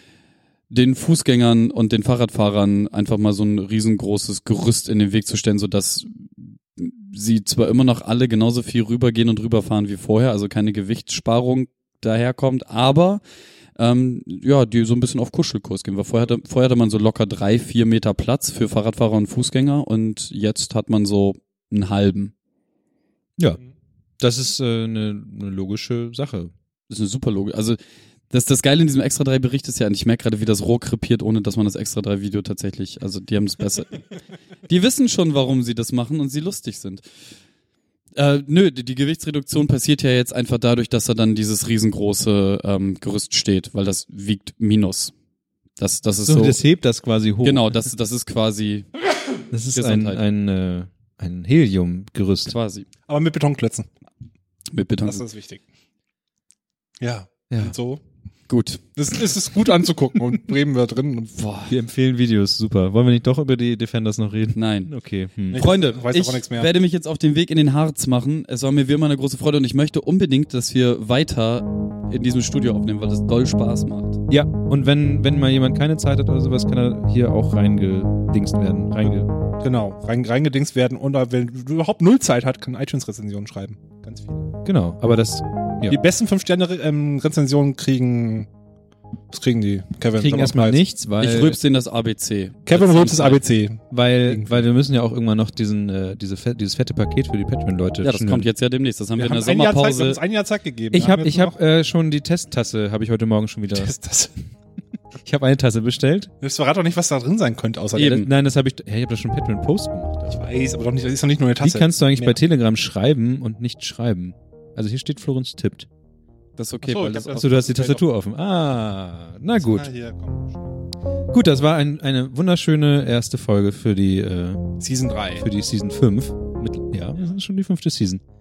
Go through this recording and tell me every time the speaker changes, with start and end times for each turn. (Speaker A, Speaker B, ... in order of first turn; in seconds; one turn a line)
Speaker A: 0.7-13.2
Speaker A: 13.8-22.3
Speaker B: 24.2-26.5
Speaker A: 26.9-27.8
Speaker A: 28.3-34.0
Speaker A: 34.7-37.0
Speaker A: 38.1-45.1
Speaker A: 45.8-46.6
Speaker B: 46.2-47.9
Speaker A: 47.4-48.9
Speaker B: 49.5-52.5
Speaker A: 49.7-50.2
Speaker A: 52.5-52.9
Speaker C: 53.1-53.9
Speaker A: 54.7-55.2
Speaker C: 55.0-55.6
Speaker C: 57.0-58.0
Speaker A: 58.5-58.8
Speaker C: 59.0-61.3
Speaker A: 61.3-61.7
Speaker B: 61.7-65.7
Speaker A: 64.5-64.9
Speaker A: 65.5-74.2
Speaker C: 65.5-66.7
Speaker B: 74.3-79.3
Speaker C: 79.6-84.4
Speaker B: 84.6-86.0
Speaker C: 85.9-88.5
Speaker C: 89.3-90.8
Speaker B: 90.2-91.6
Speaker A: 91.2-93.4
Speaker C: 92.7-94.6
Speaker B: 93.9-98.5
Speaker A: 98.0-100.2
Speaker C: 99.2-101.5
Speaker B: 100.9-103.9
Speaker C: 103.7-104.3
Speaker B: 105.2-106.3
Speaker C: 106.4-108.3
Speaker A: 107.9-108.3
Speaker B: 108.2-110.5
Speaker C: 110.3-112.4
Speaker B: 111.6-115.9
Speaker A: 116.6-117.7
Speaker C: 116.8-118.0
Speaker B: 117.3-119.9
Speaker C: 119.6-120.6
Speaker B: 121.3-124.6
Speaker C: 124.8-125.5
Speaker B: 125.4-128.2